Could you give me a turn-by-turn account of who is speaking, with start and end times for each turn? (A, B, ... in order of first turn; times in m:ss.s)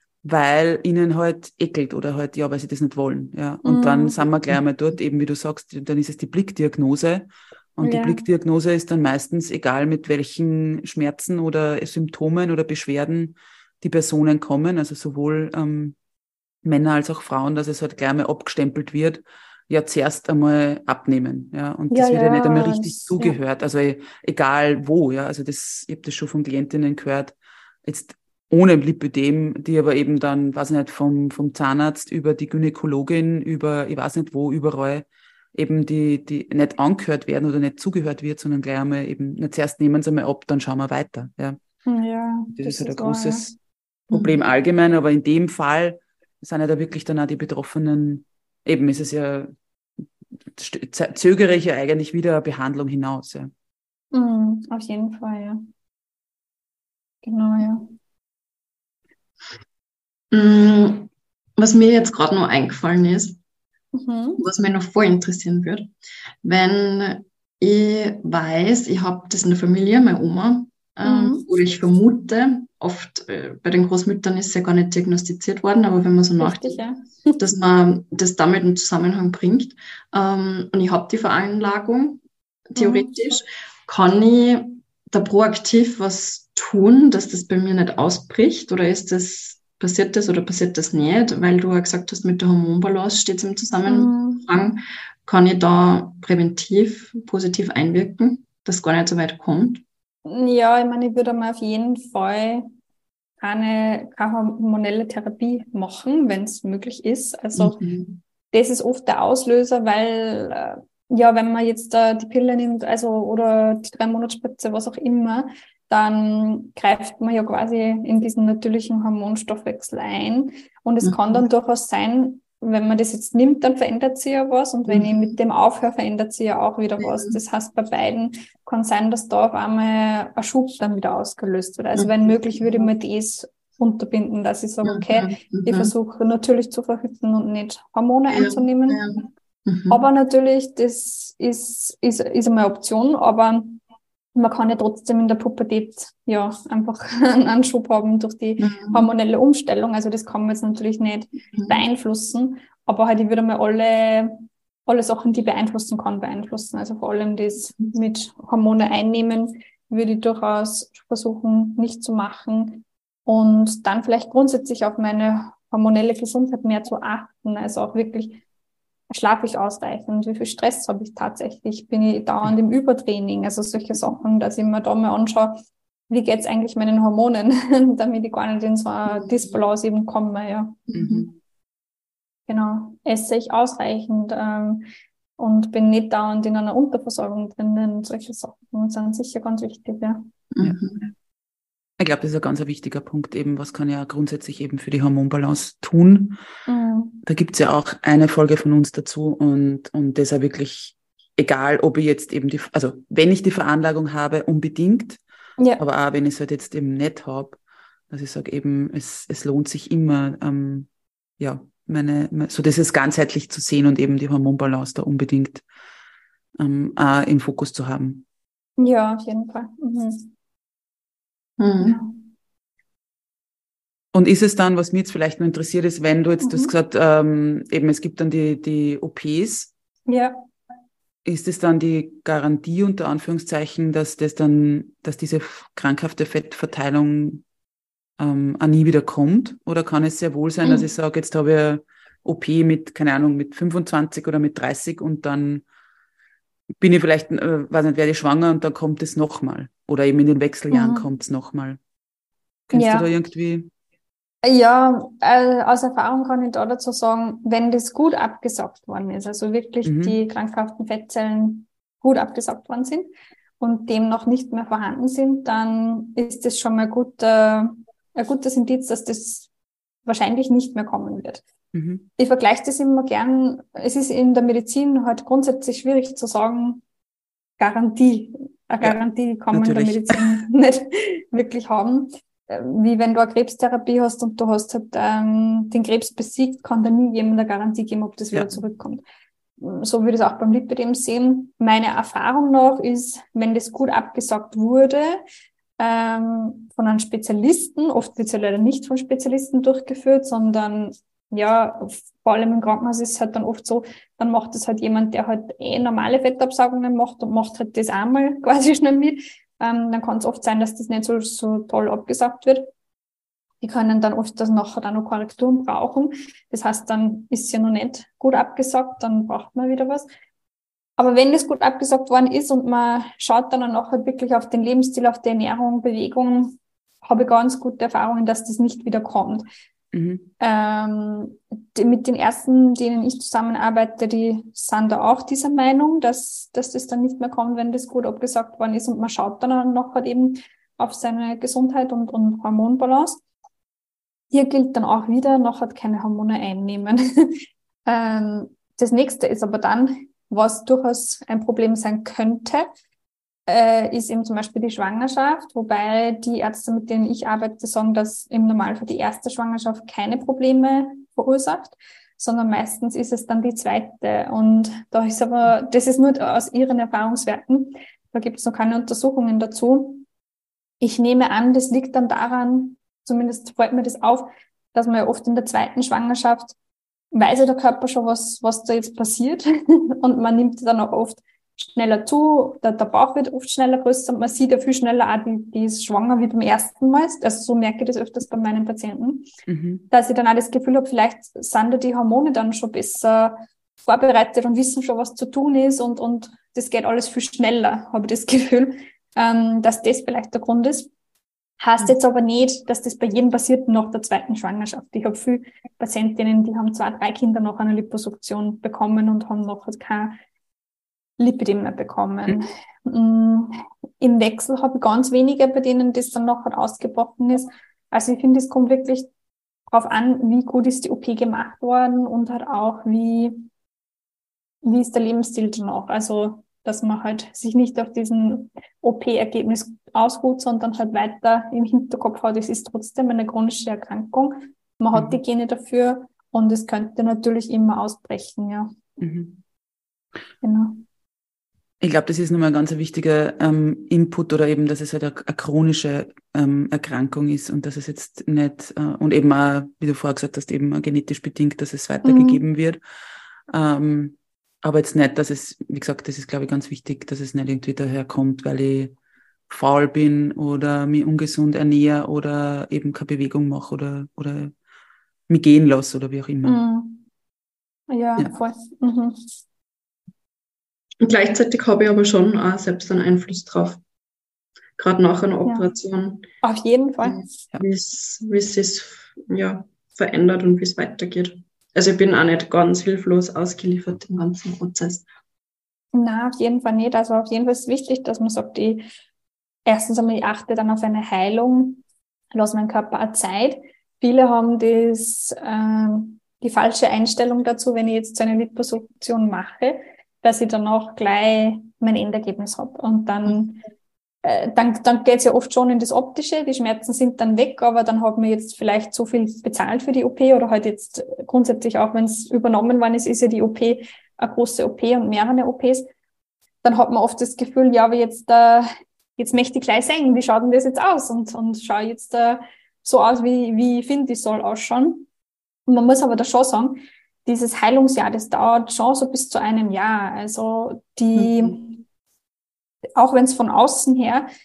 0:00.2-0:16.0 A
0:03.6-0:04.2 B
0:07.8-0:08.2 B
0:16.6-0:41.6 A
0:21.9-0:23.4 B
0:41.9-0:43.6 B
0:42.6-0:43.5 A
0:44.1-0:49.5 A
0:44.1-0:44.4 C
0:50.5-0:53.5 A
0:54.1-0:55.6 B
0:57.2-0:57.9 B
1:00.3-1:03.4 C
1:04.0-1:04.4 B
1:04.4-1:05.9 C
1:06.4-1:16.8 C
1:11.0-1:11.5 B
1:16.4-1:17.4 B
1:17.4-1:39.8 C
1:22.8-1:23.1 B
1:33.9-1:34.5 B
1:40.2-1:42.7 B
1:43.4-1:47.8 B
1:47.6-1:48.2 C
1:48.5-2:19.0 B
2:01.0-2:01.4 C
2:04.9-2:05.4 C
2:07.0-2:07.4 C
2:12.0-2:12.9 C
2:14.8-2:15.9 C
2:18.3-2:20.0 C
2:19.9-2:23.8 B
2:24.4-2:48.4 B
2:28.6-2:29.1 C
2:31.5-2:31.8 C
2:49.1-3:00.9 B
2:59.1-2:59.5 C
3:00.9-3:01.3 C
3:00.9-3:01.3 A
3:02.5-3:04.9 B
3:05.4-3:10.2 B
3:10.5-3:11.1 C
3:12.0-3:16.4 A
3:16.7-3:17.2 B
3:17.2-3:25.2 A
3:25.8-3:27.6 A
3:28.1-3:30.9 A
3:31.4-3:35.6 A
3:36.6-3:38.2 A
3:38.8-3:40.3 B
3:41.6-3:42.0 C
3:41.8-3:42.2 B
3:44.1-3:49.7 A
3:46.4-3:46.7 B
3:50.1-3:50.4 B
3:51.2-3:57.4 A
3:58.2-4:05.6 A
4:06.8-4:11.8 A
4:10.7-4:11.1 B
4:12.7-4:13.7 A
4:12.7-4:13.1 B
4:14.4-4:29.5 B
4:19.8-4:20.2 A
4:30.1-4:31.4 B
4:31.7-4:32.1 A
4:32.2-4:36.8 B
4:37.6-4:49.0 B
4:39.5-4:40.2 A
4:48.3-4:48.6 A
4:49.6-4:55.2 B
4:55.8-5:12.7 B
5:13.6-5:20.1 B
5:21.0-5:29.5 B
5:29.9-5:30.3 A
5:30.4-5:43.2 B
5:44.3-5:52.7 B
5:53.5-6:10.1 B
6:10.8-6:16.6 B
6:17.1-6:29.3 B
6:29.5-6:29.9 A
6:29.9-6:40.9 B
6:41.6-6:50.2 B
6:51.2-6:59.1 B
6:59.7-7:03.4 B
7:04.6-7:18.8 B
7:14.9-7:15.2 A
7:19.0-7:19.4 A
7:20.4-7:20.8 B
7:21.8-7:32.8 A
7:32.0-7:32.4 B
7:33.5-7:39.0 A
7:39.5-7:44.5 A
7:45.3-7:46.6 A
7:46.4-7:47.0 B
7:47.9-7:49.3 B
7:51.0-7:53.8 C
7:54.8-7:56.3 C
7:56.4-7:57.2 B
7:57.0-8:05.0 C
8:05.9-8:08.9 B
8:09.7-8:11.8 B
8:12.3-8:23.6 B
8:24.2-8:35.9 B
8:36.6-8:45.1 B
8:45.7-8:51.8 B
8:51.2-8:51.5 C
8:53.0-8:54.3 B